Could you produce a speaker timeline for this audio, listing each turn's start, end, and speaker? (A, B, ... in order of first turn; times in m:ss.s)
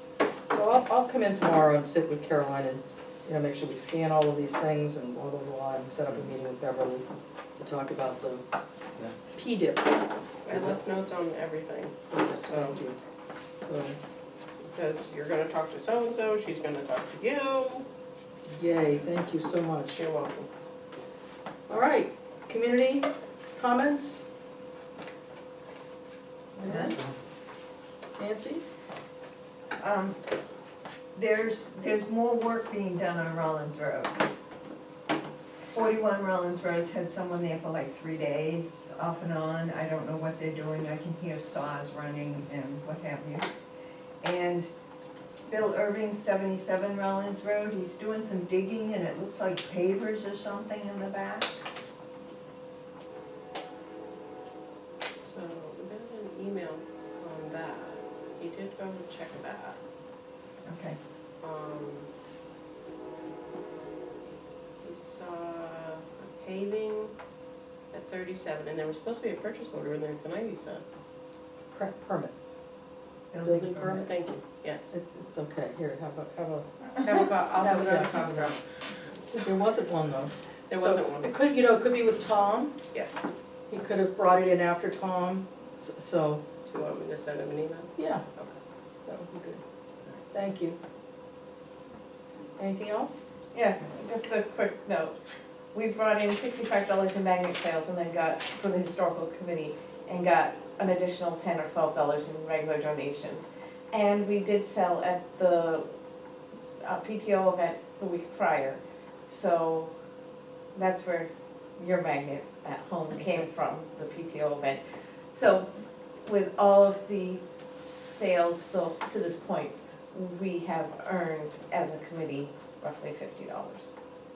0:00.5-0:07.0 A
0:07.6-0:08.4 A
0:09.3-0:10.0 A
0:10.4-0:12.8 B
0:10.5-0:10.8 A
0:12.1-0:13.0 A
0:13.6-0:14.0 A
0:14.6-0:17.8 B
0:18.5-0:20.0 A
0:19.9-0:20.5 B
0:21.7-0:24.2 A
0:26.6-0:27.0 A
0:26.6-0:27.0 C
0:28.2-0:28.6 A
0:29.8-0:30.2 C
0:31.1-0:34.3 C
0:35.7-0:43.5 C
0:44.2-0:44.7 C
0:45.5-0:51.6 C
0:55.2-0:59.8 B
1:00.6-1:01.0 C
1:01.4-1:02.1 B
1:04.8-1:07.1 B
1:07.9-1:10.8 B
1:11.7-1:12.3 A
1:13.3-1:14.0 C
1:13.4-1:14.1 A
1:13.9-1:14.9 B
1:14.9-1:18.6 A
1:17.0-1:18.6 B
1:19.2-1:22.7 A
1:20.7-1:21.3 B
1:22.9-1:23.2 B
1:23.7-1:26.4 A
1:26.6-1:28.6 B
1:28.0-1:28.2 A
1:29.1-1:29.6 A
1:30.3-1:30.8 A
1:32.6-1:33.2 A
1:33.5-1:35.2 D
1:35.7-1:45.9 D
1:46.8-1:49.9 D
1:50.7-2:03.9 D